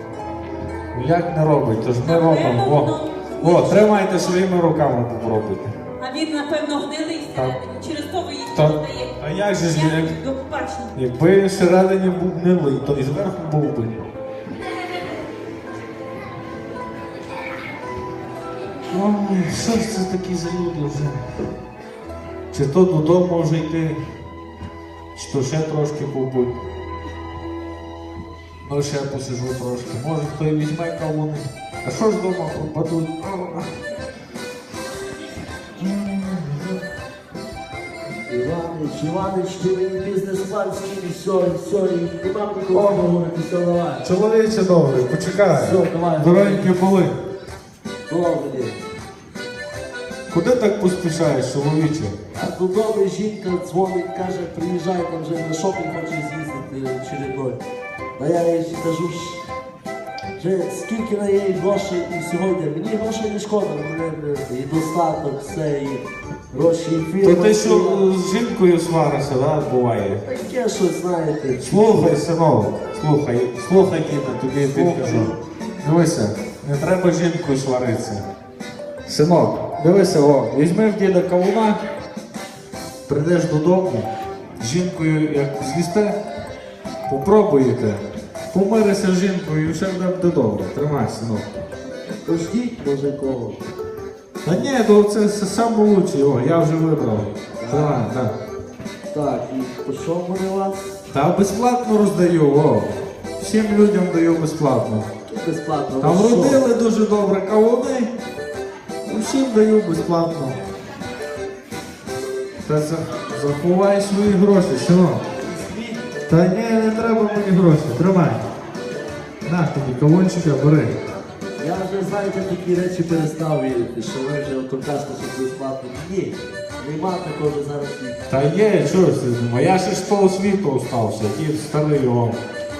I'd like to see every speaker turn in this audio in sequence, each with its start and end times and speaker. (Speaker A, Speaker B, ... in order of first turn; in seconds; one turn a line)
Speaker A: 0.9-5.7
Speaker B: 2.0-4.4
Speaker B: 6.0-10.9
Speaker A: 8.5-10.2
Speaker A: 10.9-14.0
Speaker A: 18.9-21.3
Speaker A: 22.5-24.0
Speaker A: 25.1-26.5
Speaker A: 28.6-33.7
Speaker A: 35.8-36.8
Speaker C: 38.2-44.1
Speaker A: 42.7-43.1
Speaker A: 44.0-47.1
Speaker C: 45.5-46.7
Speaker C: 48.1-48.8
Speaker A: 50.3-52.1
Speaker C: 52.3-57.6
Speaker C: 58.2-59.4
Speaker C: 60.4-68.1
Speaker A: 67.2-70.2
Speaker C: 70.2-72.2
Speaker A: 71.6-78.2
Speaker C: 74.6-75.3
Speaker A: 79.0-81.8
Speaker A: 83.1-86.2
Speaker A: 87.1-91.5
Speaker C: 92.2-93.6
Speaker A: 94.4-98.3
Speaker C: 97.6-98.1
Speaker C: 99.1-100.9
Speaker A: 101.1-105.1
Speaker C: 105.2-106.6
Speaker A: 106.0-108.1
Speaker A: 109.0-110.6
Speaker A: 112.6-115.2
Speaker C: 115.5-116.0
Speaker A: 116.3-118.5
Speaker A: 119.5-121.0
Speaker C: 121.6-128.2
Speaker A: 128.3-132.4